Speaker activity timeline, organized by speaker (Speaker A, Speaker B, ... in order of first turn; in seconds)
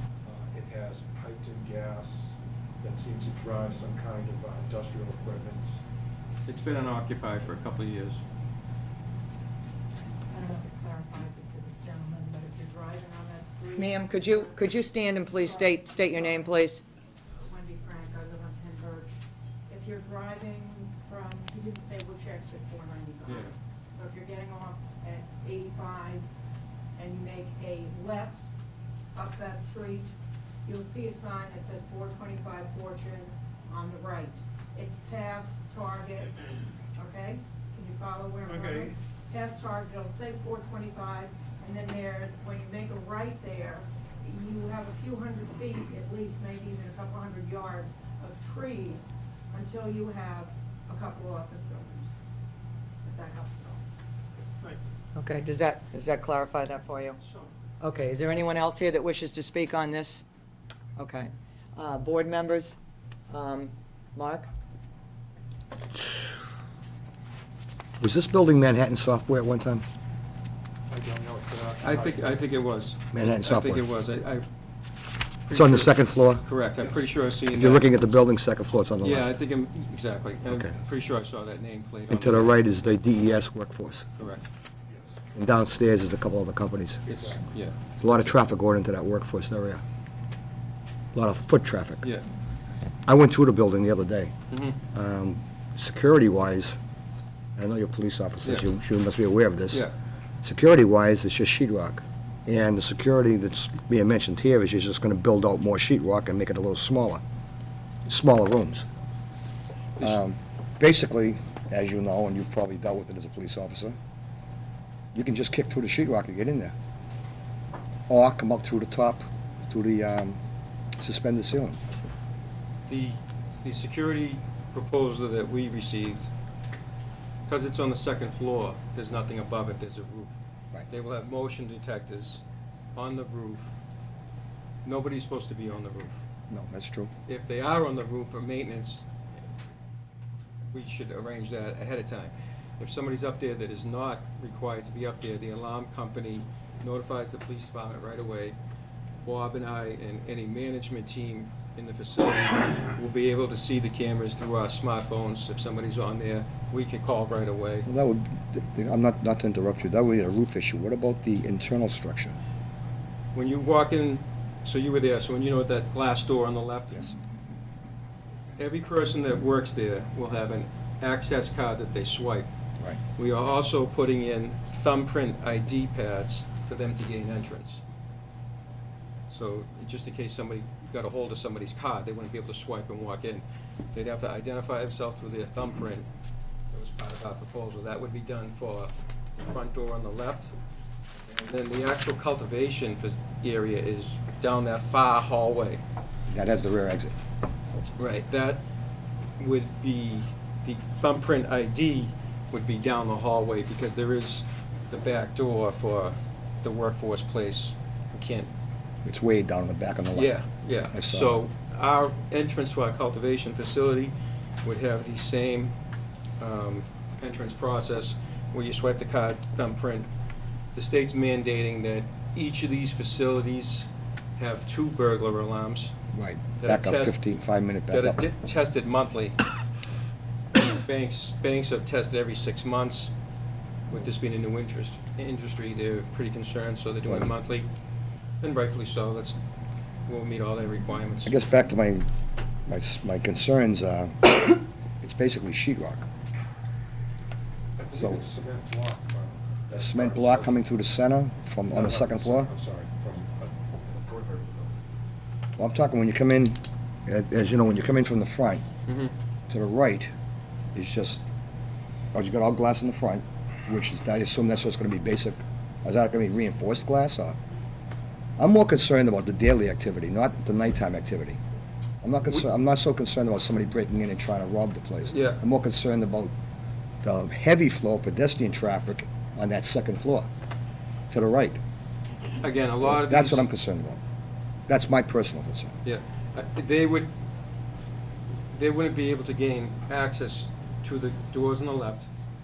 Speaker A: 0.2-5.8, 70.9-72.4, 87.1-87.3, 247.8-250.5, 251.7-254.8
Speaker B: 6.4-8.2, 23.2-23.5, 71.8-74.4, 75.5-77.9, 79.0-82.6, 84.2-84.5, 87.1-87.7, 94.5-94.8, 122.9-126.3, 127.5-130.4, 130.9-132.4, 132.9-133.7, 134.8-136.2, 137.3-139.0, 140.7-148.6, 149.2-157.9, 163.3-167.0, 168.6-172.5, 173.2-177.8, 179.3-186.1, 186.7-190.5, 191.3-195.8, 198.0-198.6, 199.4-208.5, 210.1-215.7, 216.4-220.1, 220.7-225.9, 226.6-227.2, 227.9-229.4, 230.5-233.1, 233.9-237.7, 238.4-239.4, 240.1-241.4, 258.9-259.1, 275.1-275.4, 282.4-283.5, 285.8-287.1, 288.5-292.1
Speaker C: 10.3-14.7, 15.2-16.6, 17.4-19.1, 19.7-26.2, 26.9-28.5, 29.1-30.1, 30.6-36.4, 36.9-52.1, 53.0-53.8
Speaker D: 13.8-16.8, 55.1-57.2, 57.8-60.2, 61.0-62.8, 63.3-64.5
Speaker E: 68.0-69.8, 73.1-73.8, 75.5-76.4, 77.5-79.3, 82.1-84.1, 85.3-87.1, 88.0-89.8, 91.1-92.1, 93.0-94.3, 94.9-96.8, 97.6-99.9, 100.4-107.2, 108.1-108.8, 110.0-114.0, 115.1-116.7, 118.1-120.4, 121.0-121.8, 136.5-137.1, 157.8-162.4, 196.3-197.1, 209.0-211.4, 226.1-228.2, 241.2-242.1, 242.7-246.1, 247.9-248.2, 249.7-252.5, 255.6-258.6, 259.5-260.1, 260.7-261.2, 262.1-267.4, 268.4-271.4, 272.0-276.3, 277.0-280.3, 281.1-281.6, 282.8-284.0, 284.7-285.7